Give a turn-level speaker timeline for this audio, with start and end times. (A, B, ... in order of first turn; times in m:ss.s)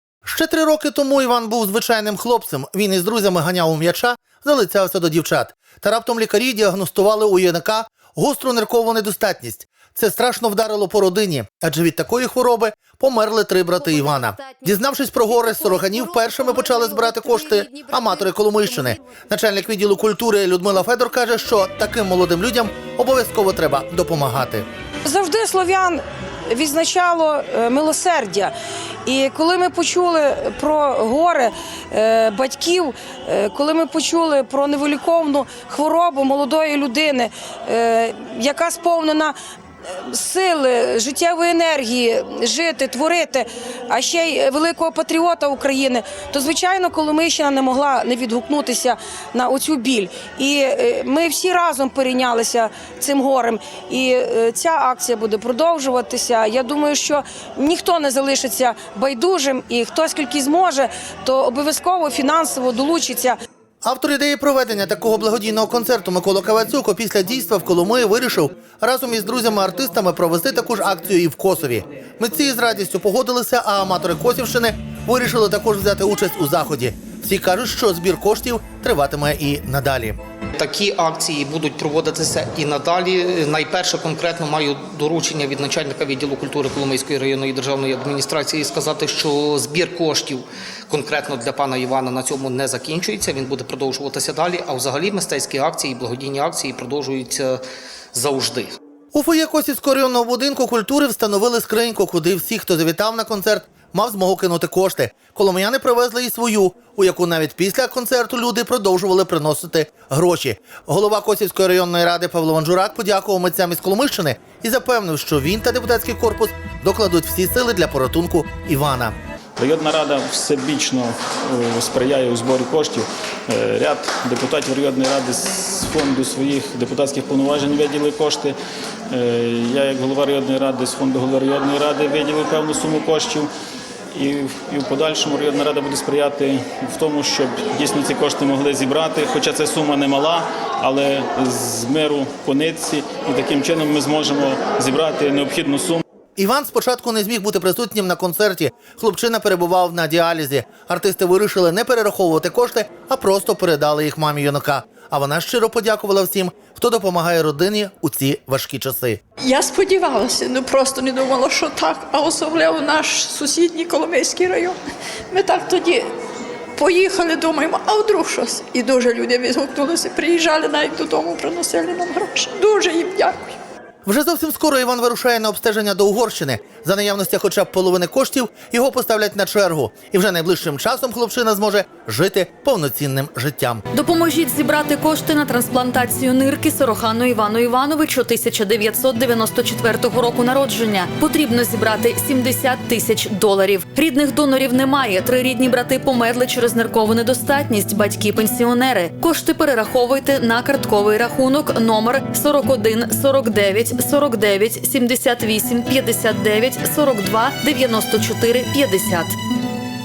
0:00.2-0:24.6 A
0:25.0-0:28.5 B
0:29.0-0:39.4 B
0:39.9-1:03.4 B
1:03.8-1:20.2 A
1:20.6-1:37.6 C
1:38.1-1:38.7 C
1:39.1-1:59.1 A
1:59.6-2:08.6 D
2:09.1-2:13.5 D
2:14.1-2:26.0 D
2:26.4-2:39.2 A
2:39.4-2:44.8 E
2:45.3-2:46.1 E
2:46.8-2:53.6 E
2:54.0-3:03.8 A
3:03.9-3:29.3 F